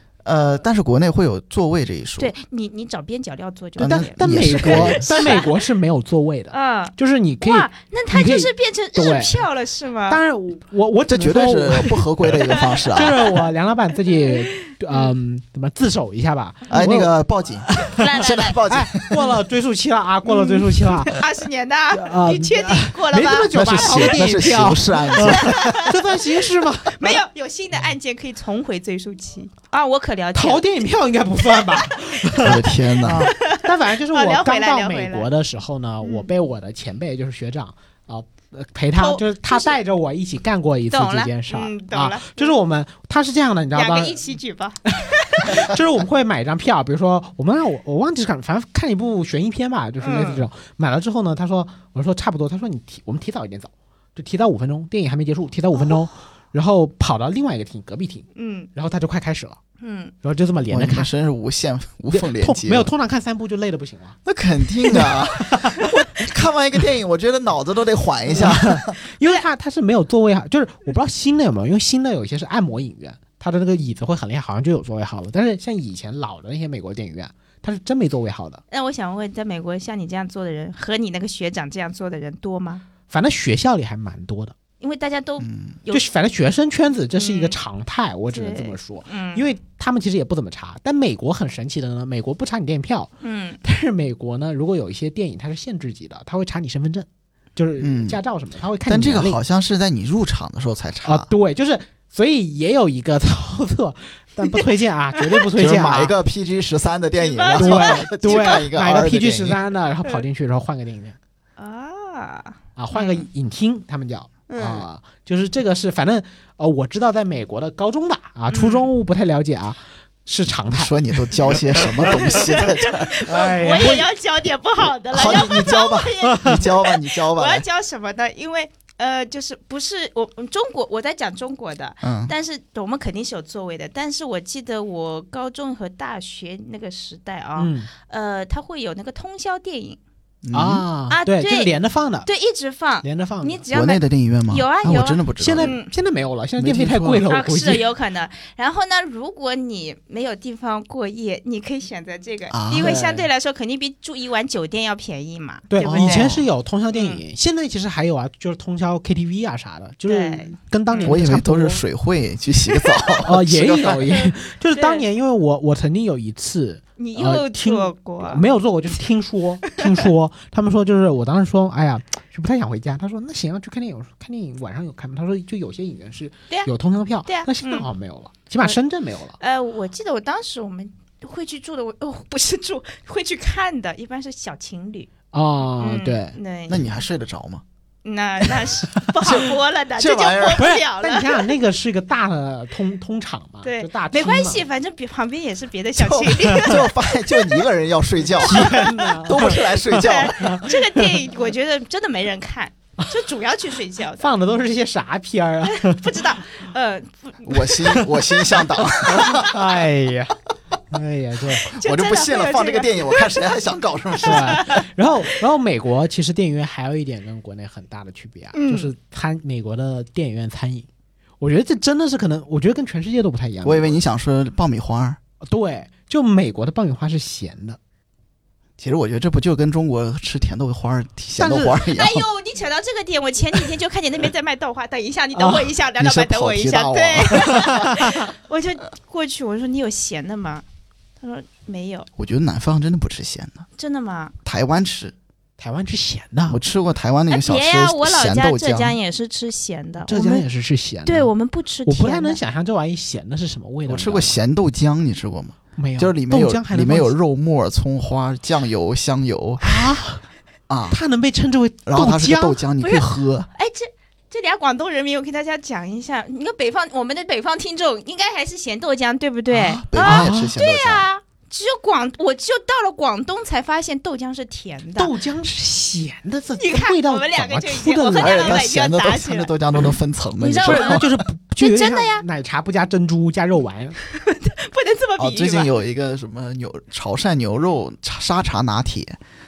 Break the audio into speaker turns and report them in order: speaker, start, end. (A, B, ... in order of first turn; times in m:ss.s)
0:00.2-0:02.3 A
0:02.2-0:05.5 B
0:03.8-0:05.4 A
0:03.8-0:09.4 C
0:06.5-0:10.2 B
0:10.1-0:12.3 C
0:11.1-0:13.3 A
0:12.5-0:13.1 B
0:12.9-0:17.1 C
0:16.7-0:19.2 A
0:17.7-0:18.0 C
0:17.9-0:18.6 B
0:18.7-0:21.2 C
0:20.2-0:24.4 B
0:21.9-0:27.2 C
0:23.5-0:25.8 A
0:25.1-0:30.8 B
0:30.3-0:44.3 C
0:31.6-0:35.3 B
0:32.4-0:33.3 A
0:36.0-0:36.3 B
0:38.9-0:39.8 B
0:40.9-0:42.5 B
0:43.7-0:45.7 B
0:44.9-0:59.6 C
0:50.0-0:50.5 B
0:58.3-0:58.7 B
0:59.8-1:00.1 B
1:00.2-1:01.1 C
1:00.7-1:02.9 A
1:02.1-1:04.2 C
1:04.2-1:08.9 A
1:04.9-1:05.9 C
1:08.3-1:18.6 C
1:18.7-1:22.8 B
1:23.1-1:24.5 C
1:24.8-1:26.1 B
1:25.4-1:25.8 A
1:25.9-1:33.1 C
1:27.1-1:27.6 B
1:28.3-1:29.5 B
1:33.2-1:33.6 B
1:33.6-1:39.4 C
1:37.8-1:38.2 A
1:38.8-1:41.3 A
1:41.0-1:46.1 C
1:45.5-1:49.6 A
1:47.2-1:48.7 B
1:47.5-1:51.2 C
1:51.6-1:53.2 B
1:52.8-2:02.6 C
1:54.5-1:54.8 B
1:58.5-1:58.9 B
2:00.7-2:03.9 A
2:02.0-2:20.0 B
2:03.2-2:04.1 C
2:05.1-2:07.6 A
2:06.3-2:06.6 C
2:12.0-2:12.3 A
2:17.6-2:17.9 C
2:20.4-2:20.8 A
2:20.5-2:22.3 C
2:21.1-2:21.7 B
2:22.2-2:25.9 B
2:23.0-2:23.6 C
2:23.7-2:25.7 A
2:25.4-2:27.9 C
2:26.6-2:27.2 A
2:27.2-2:36.3 B
2:32.5-2:33.0 A
2:32.7-2:33.3 C
2:35.7-2:41.8 C
2:35.8-2:36.4 A
2:36.9-2:37.2 B
2:40.1-2:41.2 B
2:41.0-2:44.1 A
2:42.7-2:43.2 B
2:43.2-2:59.4 C
2:44.1-2:45.0 B
2:47.0-2:48.4 B
2:57.2-2:57.9 B
2:59.4-3:05.1 B
3:05.3-3:06.4 C
3:05.8-3:06.9 B
3:06.7-3:07.6 A
3:08.0-3:11.4 B
3:09.2-3:10.7 A
3:10.5-3:14.6 C
3:13.6-3:17.6 B
3:16.0-3:20.6 A
3:18.4-3:24.3 B
3:18.4-3:21.1 C
3:24.2-3:26.2 C
3:25.7-3:28.0 B
3:27.4-3:29.6 A
3:28.6-3:30.4 C
3:30.9-3:31.7 C
3:31.6-3:34.8 A
3:31.7-3:33.3 B
3:34.1-3:34.8 B
3:34.2-3:40.9 C
3:38.5-3:38.9 B
3:41.4-3:44.0 C
3:43.6-3:45.2 A
3:45.4-3:47.8 C
3:48.8-3:52.3 A
3:51.4-3:51.8 C
3:51.9-4:00.6 B
3:55.3-3:55.7 C
3:56.0-3:57.8 A
4:01.2-4:02.1 B
4:02.2-4:03.6 A
4:03.8-4:04.3 B
4:04.4-4:05.1 A
4:05.6-4:06.6 C
4:06.5-4:09.0 A
4:07.3-4:10.4 B
4:10.0-4:11.3 C
4:11.0-4:12.4 B
4:11.8-4:14.4 C
4:13.9-4:20.0 A
4:15.8-4:17.1 C
4:19.6-4:20.2 C
4:20.7-4:21.0 A
4:20.9-4:22.6 C
4:21.8-4:23.5 A
4:22.8-4:35.1 B
4:29.5-4:31.0 A
4:30.0-4:30.6 C
4:35.0-4:38.6 C
4:36.6-4:39.5 B
4:38.2-4:41.1 A
4:40.4-4:41.0 B
4:40.6-4:44.0 C
4:41.6-4:42.2 B
4:44.2-4:45.7 B
4:45.2-4:49.2 A